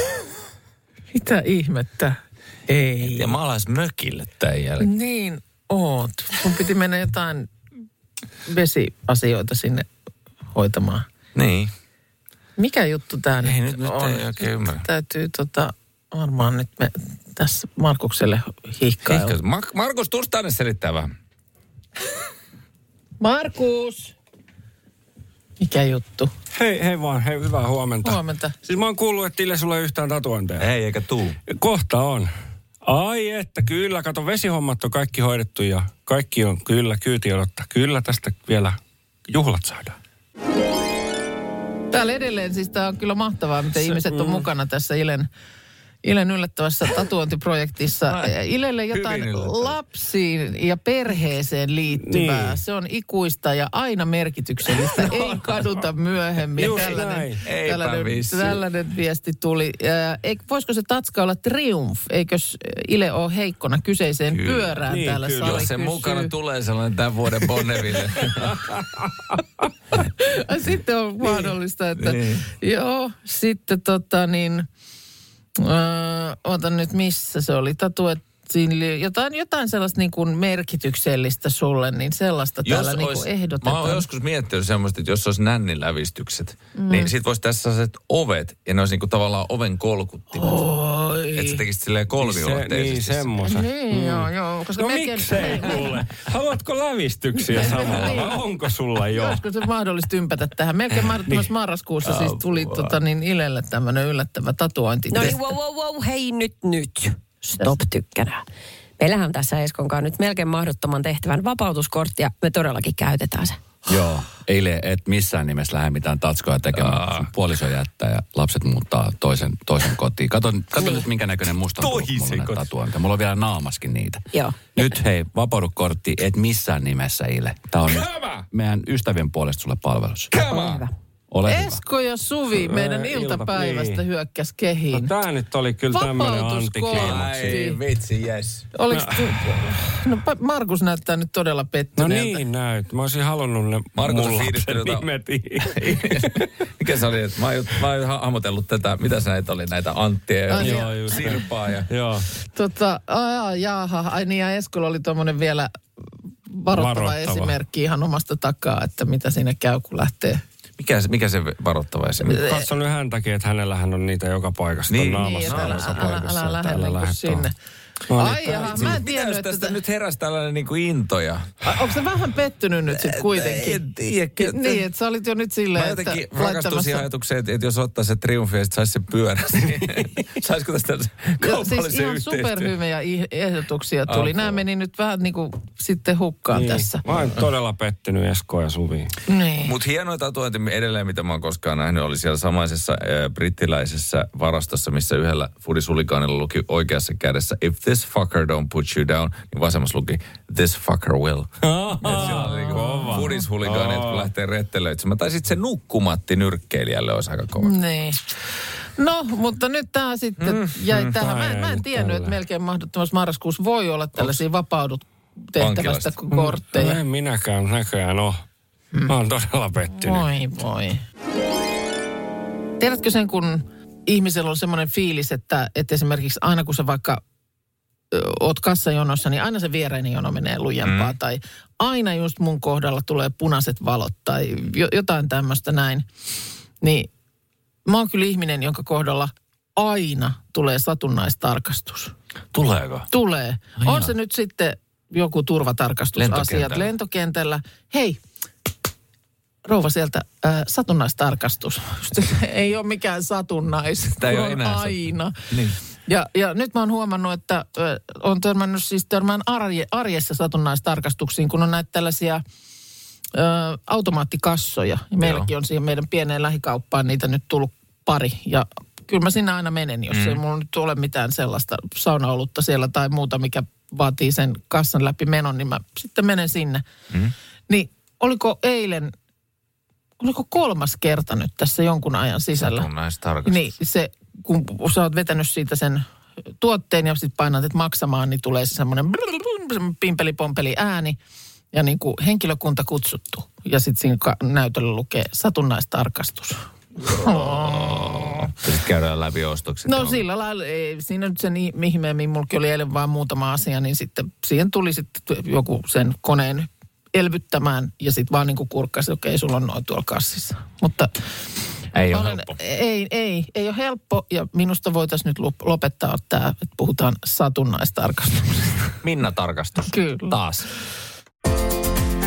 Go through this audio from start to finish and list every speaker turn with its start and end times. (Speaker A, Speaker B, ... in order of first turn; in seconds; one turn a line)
Speaker A: 1.1-3.4
Speaker B: 3.0-4.9
Speaker A: 4.8-7.5
Speaker A: 8.5-9.9
Speaker A: 10.5-11.1
Speaker B: 11.3-11.7
Speaker A: 12.6-19.4
Speaker B: 13.4-14.9
Speaker B: 19.1-21.1
Speaker A: 23.2-24.1
Speaker A: 25.6-26.3
Speaker C: 26.5-30.7
Speaker A: 28.0-28.6
Speaker B: 30.6-31.4
Speaker C: 31.5-32.3
Speaker C: 32.8-40.0
Speaker A: 41.9-45.3
Speaker C: 43.7-44.5
Speaker A: 46.0-66.3
Speaker B: 48.1-48.3
Speaker B: 48.9-49.8
Speaker C: 51.9-52.6
Speaker C: 56.6-57.4
Speaker B: 57.4-58.6
Speaker B: 64.3-68.8
Speaker C: 64.9-65.7
Speaker A: 70.0-74.7
Speaker B: 72.0-72.5
Speaker A: 75.6-84.1
Speaker B: 82.7-90.6
Speaker A: 86.8-87.1
Speaker A: 90.3-91.6
Speaker B: 91.3-93.3
Speaker C: 92.2-99.4
Speaker A: 93.5-96.0
Speaker A: 97.5-98.4
Speaker A: 99.0-105.4
Speaker B: 102.1-102.9
Speaker D: 105.1-108.5
Speaker D: 109.0-113.6
Speaker E: 113.9-130.4
Speaker B: 116.7-117.3
Speaker D: 120.8-121.1
Speaker B: 121.8-122.7
Speaker D: 124.3-125.0
Speaker B: 127.9-128.5
Speaker B: 130.3-130.8
Speaker D: 130.5-130.9
Speaker E: 131.3-131.8
Speaker A: 131.4-135.1
Speaker C: 132.5-134.0
Speaker C: 134.9-137.7
Speaker A: 135.9-137.8
Speaker B: 136.9-138.7
Speaker A: 138.7-142.4
Speaker C: 138.9-139.8
Speaker C: 142.0-146.5
Speaker B: 143.9-145.1
Speaker B: 145.6-151.9
Speaker A: 150.5-151.4
Speaker C: 150.6-152.3
Speaker A: 152.5-155.8
Speaker A: 156.5-160.4
Speaker C: 156.7-157.6
Speaker B: 160.8-162.5
Speaker A: 162.2-162.6
Speaker C: 162.5-167.5
Speaker B: 164.9-166.3
Speaker A: 165.2-167.5
Speaker C: 168.1-169.0
Speaker A: 168.1-169.8
Speaker B: 168.7-171.5
Speaker A: 171.6-173.8
Speaker B: 172.9-174.8
Speaker A: 174.4-177.0
Speaker B: 175.7-182.7
Speaker A: 181.4-187.0
Speaker B: 184.1-184.6
Speaker C: 186.5-189.1
Speaker A: 189.3-189.8
Speaker B: 189.7-207.7
Speaker C: 201.6-204.3
Speaker A: 202.1-203.3
Speaker A: 207.6-208.4
Speaker A: 209.0-217.0
Speaker B: 210.4-211.1
Speaker C: 211.0-212.4
Speaker B: 215.6-216.1
Speaker C: 216.3-218.4
Speaker C: 219.1-220.3
Speaker A: 219.9-221.0
Speaker A: 222.8-227.2
Speaker A: 228.1-236.1
Speaker B: 230.8-231.2
Speaker A: 236.8-237.1
Speaker A: 237.9-242.1
Speaker B: 242.5-243.1
Speaker A: 243.1-248.2
Speaker B: 243.8-244.1
Speaker B: 246.2-246.9
Speaker A: 249.7-255.4
Speaker B: 254.2-255.8
Speaker A: 256.1-262.4
Speaker A: 263.4-276.8
Speaker B: 265.2-265.5
Speaker B: 270.1-270.4
Speaker A: 277.7-279.1
Speaker A: 280.2-282.9
Speaker B: 282.6-283.8
Speaker A: 283.4-286.1
Speaker A: 286.6-291.2
Speaker A: 291.7-298.5
Speaker B: 297.1-300.2
Speaker A: 299.9-311.1
Speaker B: 311.9-312.6
Speaker A: 312.1-318.9
Speaker B: 319.0-320.7
Speaker A: 319.9-320.4